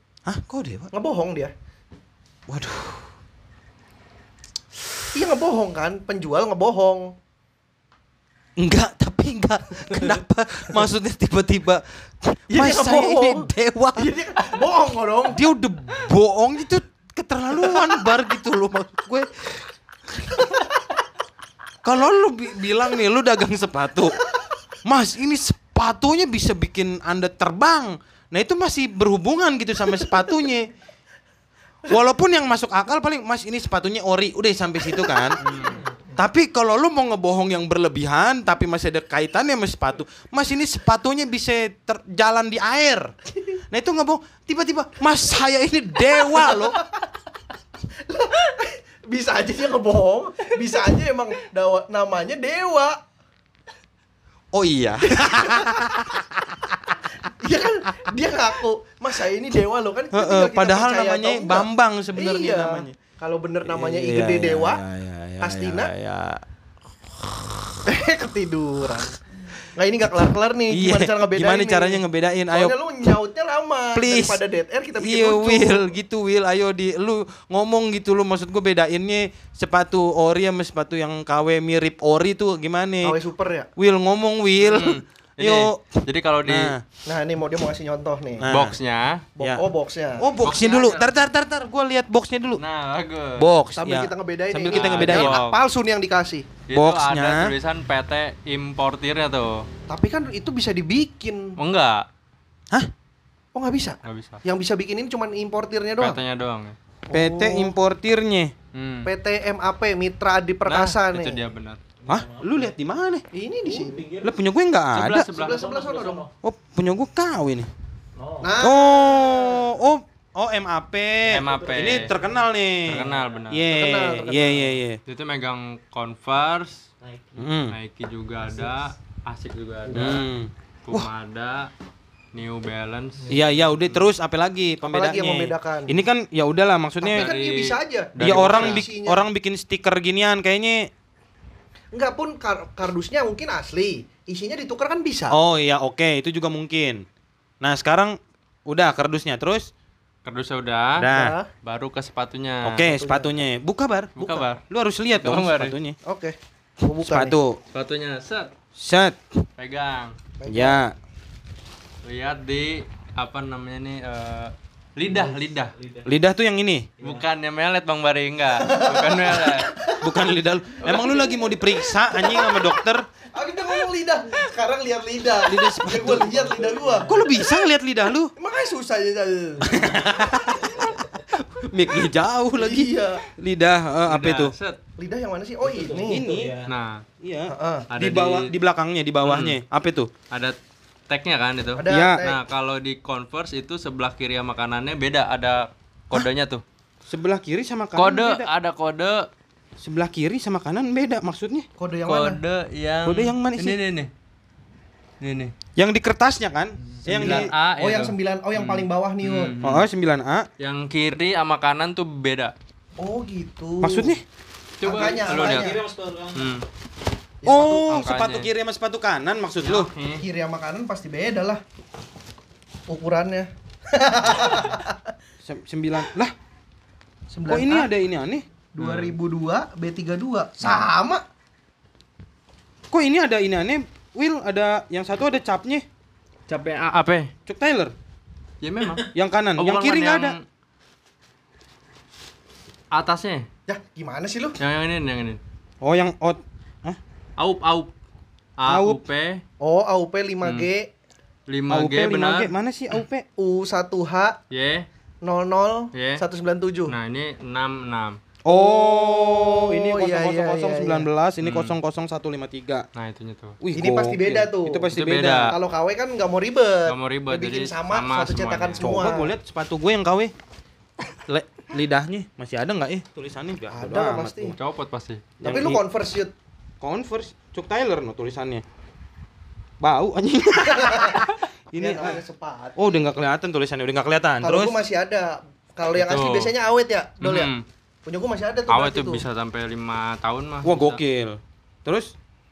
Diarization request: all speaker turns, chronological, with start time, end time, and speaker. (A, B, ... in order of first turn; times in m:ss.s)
0:00.3-0:00.9 A
0:00.9-0:01.5 B
0:02.5-0:03.1 A
0:05.1-0:07.1 B
0:08.6-0:14.1 A
0:12.5-0:15.4 B
0:15.3-0:20.6 A
0:21.8-0:24.2 A
0:24.8-0:30.7 A
0:31.8-0:35.5 A
0:35.4-0:35.8 C
0:35.6-0:35.8 D
0:36.2-0:46.8 A
0:46.3-0:46.8 B
0:48.1-0:53.0 B
0:54.5-0:57.0 A
0:55.1-0:55.9 B
0:57.4-1:04.8 B
1:00.1-1:03.0 A
1:03.6-1:06.4 A
1:05.4-1:05.9 B
1:07.9-1:15.9 B
1:10.7-1:13.1 A
1:14.0-1:14.4 A
1:15.0-1:23.2 A
1:23.0-1:23.7 B
1:23.8-1:26.8 A
1:24.6-1:26.8 C
1:27.1-1:28.5 B
1:28.4-1:28.8 A
1:28.5-1:29.2 C
1:29.4-1:30.3 B
1:30.2-1:32.6 A
1:30.4-1:31.1 C
1:32.6-1:33.5 C
1:33.4-1:35.4 A
1:33.8-1:36.5 B
1:34.7-1:35.6 C
1:36.7-1:39.7 C
1:36.7-1:37.5 A
1:39.9-1:41.6 B
1:41.6-1:42.1 C
1:43.6-1:46.2 B
1:44.0-1:44.4 C
1:46.0-1:46.8 C
1:47.1-1:47.7 B
1:47.1-1:48.5 A
1:48.7-1:49.1 C
1:49.0-1:51.5 B
1:50.7-1:51.8 C
1:52.0-1:52.8 D
1:52.1-1:53.2 A
1:53.3-1:54.1 B
1:53.6-1:54.4 D
1:54.2-1:55.3 A
1:54.9-1:55.6 C
1:55.2-1:56.3 D
1:55.3-1:56.3 B
1:56.4-1:57.7 A
1:58.2-1:58.6 D
1:58.4-1:59.7 B
1:58.6-2:05.0 A
2:01.3-2:02.1 C
2:01.3-2:03.5 D
2:02.9-2:03.6 C
2:03.7-2:04.8 B
2:05.1-2:06.9 C
2:07.0-2:07.5 D
2:07.4-2:07.8 A
2:07.7-2:10.3 C
2:08.4-2:09.0 D
2:09.9-2:10.2 D
2:09.9-2:11.1 A
2:10.9-2:11.7 C
2:12.3-2:14.1 C
2:13.2-2:13.8 D
2:13.3-2:17.3 A
2:14.8-2:16.0 B
2:17.0-2:19.2 B
2:17.1-2:18.8 C
2:18.2-2:20.9 A
2:21.9-2:25.4 B
2:25.3-2:27.0 A
2:27.6-2:29.7 A
2:30.2-2:31.1 C
2:31.0-2:31.4 A
2:31.1-2:31.5 B
2:31.6-2:32.9 C
2:32.6-2:36.0 A
2:32.8-2:33.4 B
2:34.2-2:34.6 C
2:35.2-2:35.8 C
2:36.0-2:37.4 B
2:37.0-2:37.6 A
2:37.7-2:38.5 C
2:38.8-2:39.4 A
2:39.6-2:40.2 C
2:40.4-2:40.8 B
2:40.5-2:41.0 A
2:42.0-2:45.8 C
2:45.0-2:46.2 D
2:46.0-2:46.9 A
2:47.0-2:47.3 D
2:47.0-2:49.7 C
2:48.6-2:50.0 B
2:50.0-2:53.1 A
2:50.8-2:52.8 B
2:53.3-2:57.2 B
2:55.5-2:56.3 A
2:55.9-2:57.3 D
2:57.1-2:58.3 A
2:58.4-3:00.0 B
2:59.6-3:04.5 A
2:59.9-3:01.2 D
3:02.6-3:03.2 B
3:04.1-3:04.8 C
3:05.0-3:06.3 B
3:05.6-3:06.7 D
3:06.1-3:06.6 A
3:06.7-3:07.0 C
3:07.2-3:10.1 A
3:07.5-3:07.9 B
3:07.9-3:08.5 C
3:09.2-3:09.6 C
3:10.3-3:10.6 C
3:11.1-3:16.6 C
3:11.8-3:12.4 B
3:11.9-3:12.2 A
3:17.1-3:18.5 A
3:18.0-3:19.3 C
3:19.8-3:21.7 A
3:21.8-3:22.4 B
3:22.1-3:24.1 C
3:23.0-3:23.8 A
3:25.2-3:25.5 C
3:25.8-3:27.5 A
3:26.8-3:27.3 D
3:27.1-3:29.9 C
3:27.2-3:29.6 B
3:29.6-3:30.5 A
3:30.6-3:32.5 C
3:33.0-3:34.2 B
3:33.8-3:34.2 A
3:34.8-3:35.8 C
3:34.8-3:35.8 B
3:34.9-3:36.5 D
3:36.4-3:36.6 C
3:37.4-3:37.9 B
3:37.5-3:39.9 A
3:37.7-3:38.5 C
3:39.6-3:40.2 C
3:40.2-3:41.6 B
3:42.9-3:45.1 B
3:45.4-3:46.3 A
3:47.3-3:47.9 B
3:47.5-3:48.5 A
3:48.8-3:51.2 B
3:48.8-3:49.2 C
3:52.9-3:55.9 A
3:56.5-3:57.3 C
3:57.5-3:57.9 A
3:58.6-4:00.4 C
3:59.1-4:00.4 A
4:02.9-4:03.5 C
4:03.7-4:04.6 B
4:04.6-4:05.4 C
4:05.8-4:07.0 A
4:07.4-4:07.9 C
4:08.6-4:09.4 C
4:08.7-4:09.0 A
4:09.6-4:10.9 B
4:10.4-4:10.7 C
4:11.5-4:12.5 C
4:11.7-4:13.2 A
4:13.4-4:14.4 B
4:14.5-4:14.9 C
4:15.2-4:16.9 B
4:15.9-4:16.2 C
4:16.9-4:18.2 C
4:18.4-4:22.9 A
4:18.5-4:21.1 B
4:21.4-4:21.8 C
4:23.0-4:23.6 C
4:23.6-4:25.6 A
4:23.8-4:29.3 B
4:24.9-4:25.6 C
4:26.9-4:28.9 C
4:28.8-4:30.3 A
4:31.3-4:34.5 A
4:33.7-4:34.6 B
4:34.5-4:35.3 C
4:35.4-4:35.8 A
4:35.4-4:36.3 B
4:36.8-4:38.6 A
4:39.8-4:42.2 A
4:40.7-4:41.2 B
4:41.8-4:43.0 B
4:42.8-4:44.8 A
4:44.4-4:47.5 B
4:46.0-4:46.5 C
4:47.2-4:47.6 C
4:48.1-4:49.2 B
4:48.7-4:51.0 C
4:50.6-4:52.1 A